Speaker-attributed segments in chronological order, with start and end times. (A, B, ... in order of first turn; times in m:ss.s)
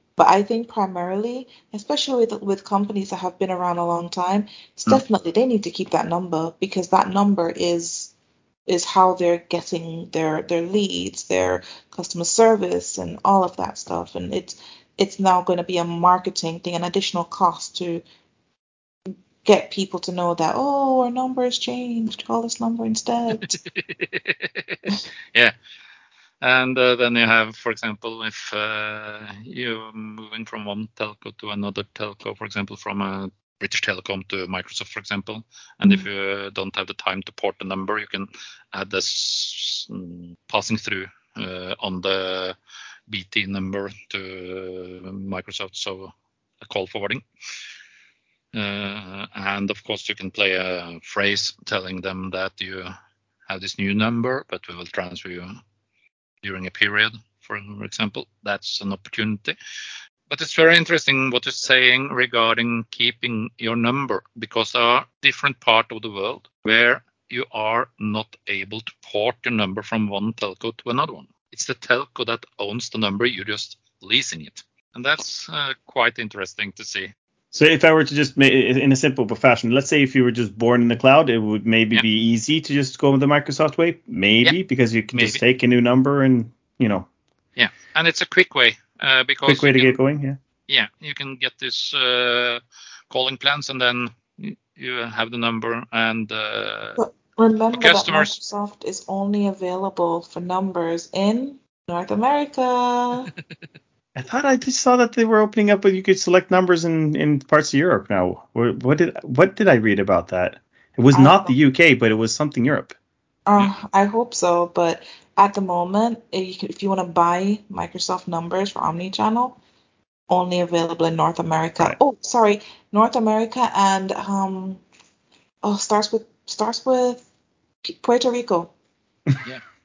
0:00.2-0:08.1 A
0:08.7-0:18.0 A
0:19.4-0:23.6 A
0:23.3-0:25.5 B
0:26.4-0:42.6 B
0:43.1-0:47.2 B
0:48.5-0:52.9 B
0:53.5-0:55.6 B
0:56.4-0:59.6 B
1:00.3-1:17.1 B
1:17.5-1:27.1 C
1:25.1-1:25.4 B
1:27.6-1:30.0 B
1:29.5-1:30.4 C
1:30.7-1:37.0 B
1:37.0-1:43.3 A
1:37.7-1:38.3 B
1:44.2-1:52.9 C
1:51.1-1:51.6 A
1:53.4-1:59.6 A
2:00.3-2:04.8 A
2:05.6-2:07.2 A
2:07.8-2:08.7 A